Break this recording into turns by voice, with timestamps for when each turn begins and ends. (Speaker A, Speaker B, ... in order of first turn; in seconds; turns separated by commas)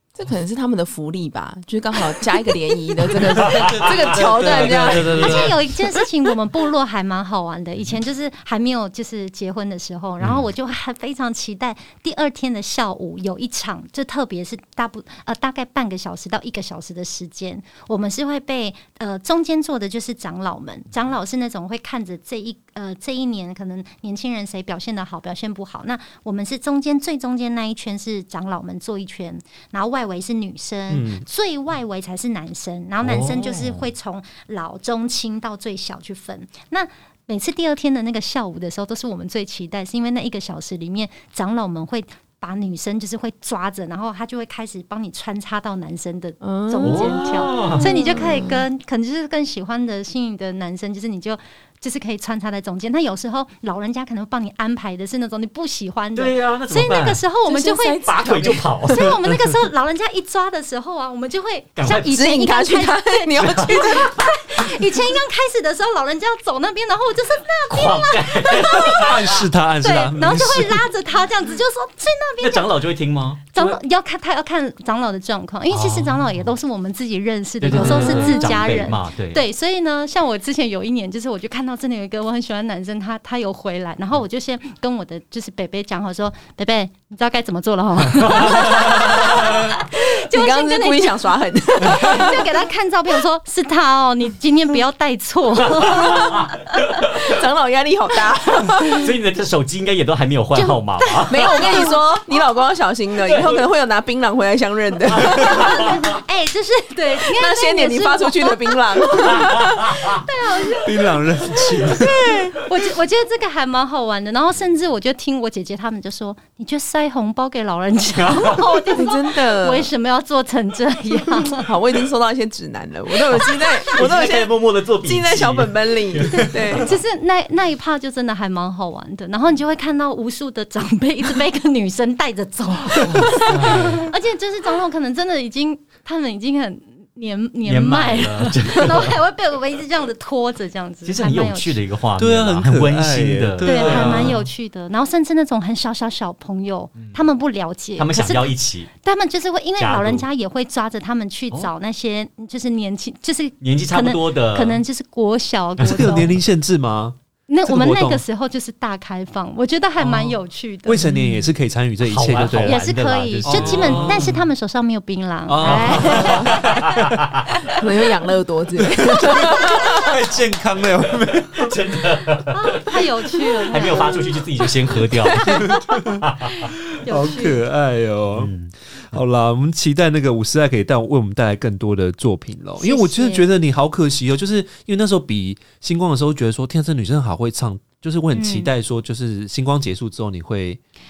Speaker A: 0.1-5.5, Speaker B: 3.2-5.6, Speaker C: 4.4-5.5, Speaker D: 5.1-69.1, Speaker C: 10.2-10.4, Speaker B: 30.9-31.2, Speaker C: 33.0-33.9, Speaker A: 46.4-48.6, Speaker C: 46.8-47.9, Speaker C: 56.1-57.2, Speaker A: 57.5-59.0, Speaker C: 58.0-59.1, Speaker C: 61.8-62.1, Speaker A: 61.9-64.2, Speaker C: 63.4-64.2, Speaker C: 67.7-69.4, Speaker B: 68.8-70.9, Speaker D: 69.8-72.8, Speaker C: 72.4-73.8, Speaker D: 73.5-96.8, Speaker C: 75.7-76.5, Speaker C: 77.6-79.4, Speaker B: 77.7-78.3, Speaker A: 78.0-78.5, Speaker C: 88.1-89.5, Speaker A: 88.5-92.6, Speaker C: 95.7-97.3, Speaker A: 97.2-99.1, Speaker C: 98.8-101.8, Speaker D: 100.5-102.0, Speaker A: 101.3-106.0, Speaker C: 103.2-103.7, Speaker C: 105.1-106.0, Speaker D: 105.5-109.5, Speaker A: 107.2-110.2, Speaker D: 110.1-121.7, Speaker B: 110.8-112.3, Speaker C: 118.1-118.7, Speaker A: 118.9-119.9, Speaker A: 121.5-126.9, Speaker C: 123.4-126.9, Speaker D: 126.3-141.8, Speaker C: 133.0-134.1, Speaker C: 137.6-139.2, Speaker C: 141.0-144.4, Speaker B: 142.2-144.4, Speaker D: 143.6-156.3, Speaker C: 148.0-148.9, Speaker C: 149.8-150.2, Speaker C: 153.6-154.8, Speaker C: 155.8-156.2, Speaker B: 155.8-158.2, Speaker D: 157.5-161.0, Speaker B: 160.8-162.8, Speaker A: 161.0-161.5, Speaker C: 162.0-164.4, Speaker D: 162.6-166.4, Speaker B: 163.4-164.4, Speaker B: 165.5-167.2, Speaker C: 165.6-167.5, Speaker A: 165.6-166.6, Speaker A: 167.8-170.1, Speaker B: 169.0-171.8, Speaker D: 169.3-170.1, Speaker C: 171.5-172.8, Speaker D: 172.5-174.4, Speaker C: 173.7-176.7, Speaker B: 175.2-176.2, Speaker D: 175.3-177.6, Speaker B: 176.9-190.8, Speaker C: 178.3-179.2, Speaker D: 182.8-183.5, Speaker D: 188.3-188.7